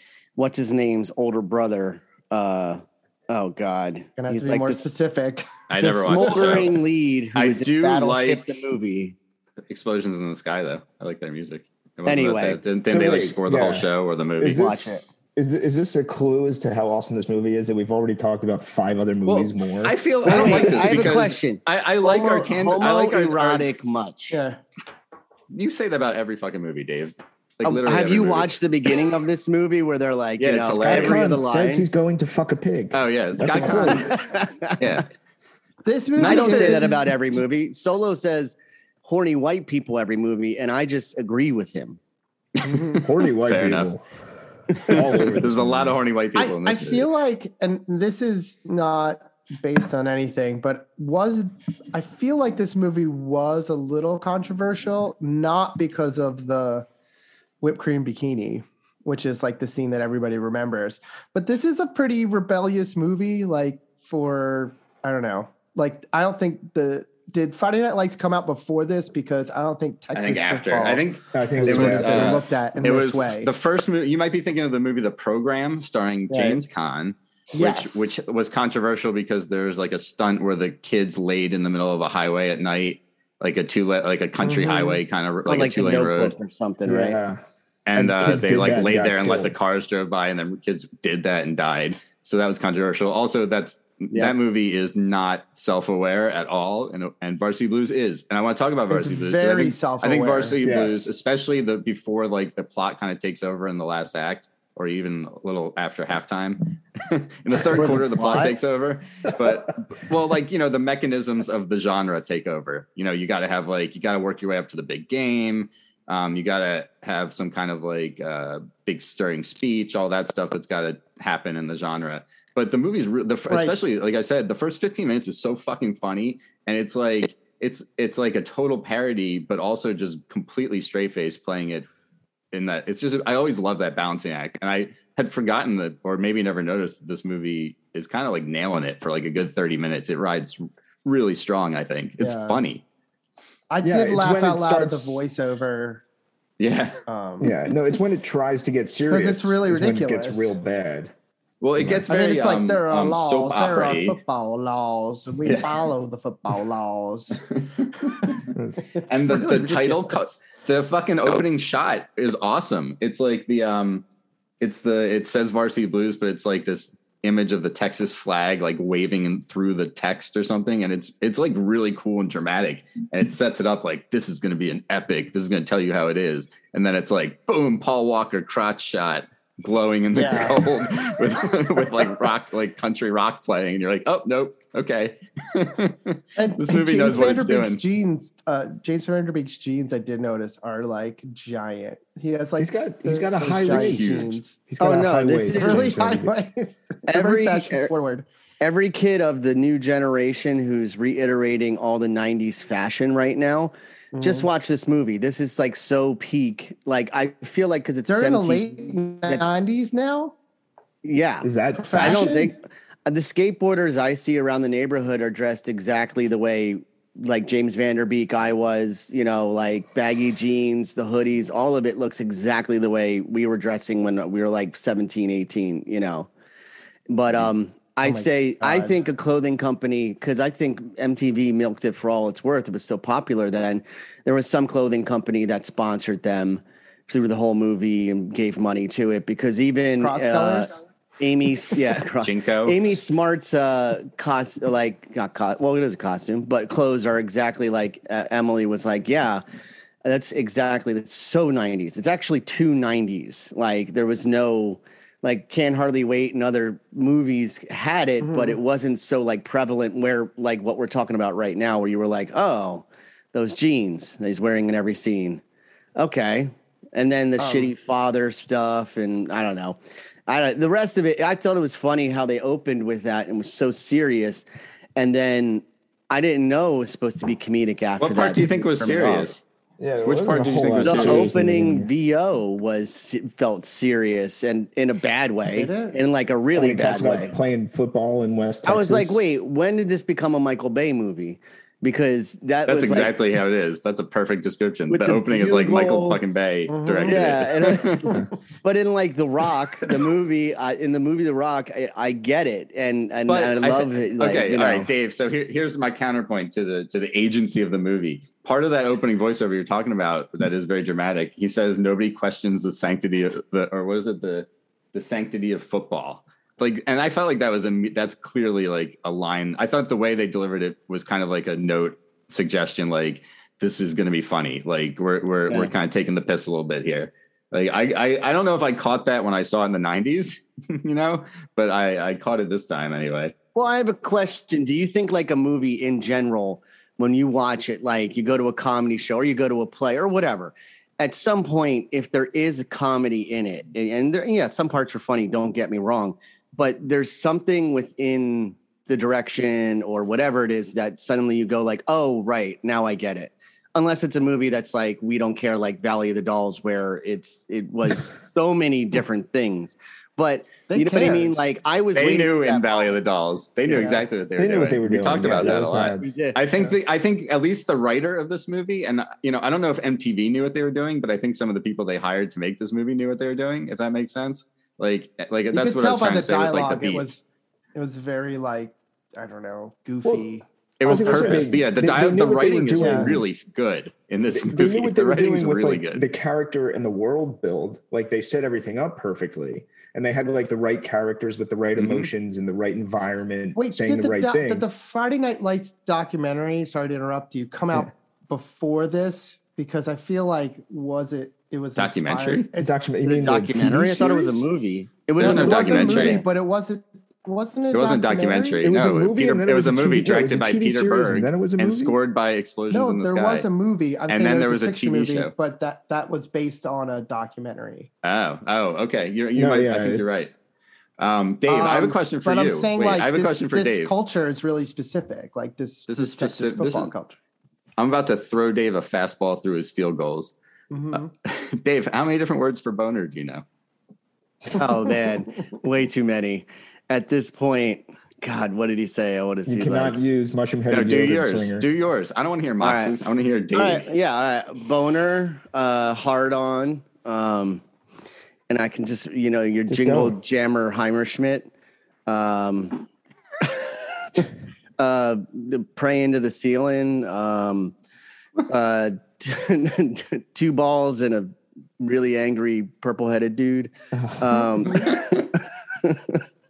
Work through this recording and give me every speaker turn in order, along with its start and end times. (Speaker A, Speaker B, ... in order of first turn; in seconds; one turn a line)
Speaker A: 0.4-4.8
Speaker B: 4.2-5.5
Speaker C: 5.7-6.8
Speaker A: 5.8-9.2
Speaker C: 7.3-8.6
Speaker C: 9.7-14.7
Speaker A: 12.1-12.6
Speaker D: 12.9-13.9
Speaker D: 14.4-21.1
Speaker A: 14.5-15.0
Speaker C: 19.2-23.7
Speaker A: 20.2-24.4
Speaker B: 24.3-24.6
Speaker C: 25.5-28.5
Speaker A: 27.6-31.9
Speaker C: 30.4-31.3
Speaker D: 30.8-34.1
Speaker C: 32.9-34.2
Speaker A: 33.9-34.7
Speaker C: 34.8-35.1
Speaker B: 35.8-37.1
Speaker C: 36.2-36.9
Speaker A: 36.2-42.0
Speaker C: 42.6-43.9
Speaker B: 42.6-43.0
Speaker D: 43.0-44.0
Speaker C: 44.8-47.1
Speaker D: 44.8-46.0
Speaker B: 46.3-56.9
Speaker B: 57.6-71.0
Speaker C: 70.2-86.3
Speaker D: 71.3-72.4
Speaker B: 71.6-73.5
Speaker B: 77.5-78.2
Speaker B: 84.4-85.0
Speaker A: 85.5-87.2
Speaker D: 86.8-87.4
Speaker C: 87.9-131.9
Speaker D: 87.9-89.5
Speaker B: 98.9-100.6
Speaker D: 100.6-101.1
Speaker A: 107.7-108.6
Speaker B: 123.5-123.7
Speaker C: 132.5-142.8
Speaker B: 142.2-142.6
Speaker B: 143.7-146.0
Speaker D: 143.8-145.2
Speaker C: 146.6-147.0
Speaker B: 147.1-147.5
Speaker D: 147.4-151.1
Speaker B: 149.1-150.6
Speaker C: 151.6-154.2
Speaker B: 152.1-157.4
Speaker C: 155.4-155.9
Speaker C: 157.6-158.5
Speaker D: 158.6-158.8
Speaker B: 158.9-160.3
Speaker C: 159.1-164.1
Speaker C: 164.6-187.8
Speaker B: 180.1-180.6
Speaker B: 186.4-194.6
Speaker D: 192.6-196.3
Speaker C: 193.7-194.3
Speaker A: 194.8-195.9
Speaker B: 195.5-198.3
Speaker A: 197.1-197.9
Speaker A: 198.6-209.4
Speaker B: 204.1-204.5
Speaker B: 208.1-210.3
Speaker A: 211.0-211.5
Speaker D: 211.4-212.3
Speaker B: 211.7-212.5
Speaker A: 212.0-226.3
Speaker A: 227.1-249.4
Speaker B: 228.0-229.0
Speaker B: 240.0-240.8
Speaker C: 242.2-243.0
Speaker A: 250.0-265.4
Speaker B: 258.2-258.6
Speaker A: 266.0-274.4
Speaker B: 267.4-267.7
Speaker A: 274.9-279.4
Speaker C: 278.0-279.4
Speaker D: 279.8-281.9
Speaker C: 280.1-281.4
Speaker A: 280.8-287.4
Speaker B: 285.5-286.0
Speaker D: 286.5-289.2
Speaker A: 288.7-293.1
Speaker C: 292.7-298.1
Speaker A: 294.9-296.2
Speaker B: 296.7-298.2
Speaker A: 297.0-298.1
Speaker A: 298.6-304.9
Speaker C: 303.3-333.3
Speaker A: 333.6-362.9
Speaker B: 360.7-361.4
Speaker C: 361.9-377.1
Speaker B: 363.7-364.0
Speaker D: 364.4-366.1
Speaker A: 365.4-366.4
Speaker B: 375.5-377.2
Speaker B: 377.7-381.6
Speaker C: 380.8-386.1
Speaker D: 380.8-383.3
Speaker B: 382.8-383.1
Speaker D: 384.3-394.7
Speaker C: 391.8-392.1
Speaker B: 393.6-402.8
Speaker C: 401.8-402.5
Speaker D: 402.6-404.5
Speaker A: 403.0-406.2
Speaker C: 405.2-406.2
Speaker B: 405.2-408.6
Speaker C: 407.7-413.5
Speaker D: 408.6-411.9
Speaker B: 412.7-417.9
Speaker C: 414.1-415.3
Speaker C: 418.0-420.3
Speaker D: 419.4-420.3
Speaker C: 421.0-423.9
Speaker B: 421.4-427.2
Speaker C: 425.9-426.9
Speaker C: 427.8-430.3
Speaker B: 430.7-431.1
Speaker C: 430.9-433.4
Speaker A: 434.5-440.0
Speaker D: 439.4-441.7
Speaker C: 440.7-443.9
Speaker A: 442.6-442.9
Speaker A: 443.5-447.6
Speaker A: 448.5-451.5
Speaker D: 449.7-450.2
Speaker A: 452.1-452.9
Speaker A: 454.8-457.7
Speaker A: 458.5-466.2
Speaker D: 463.9-464.5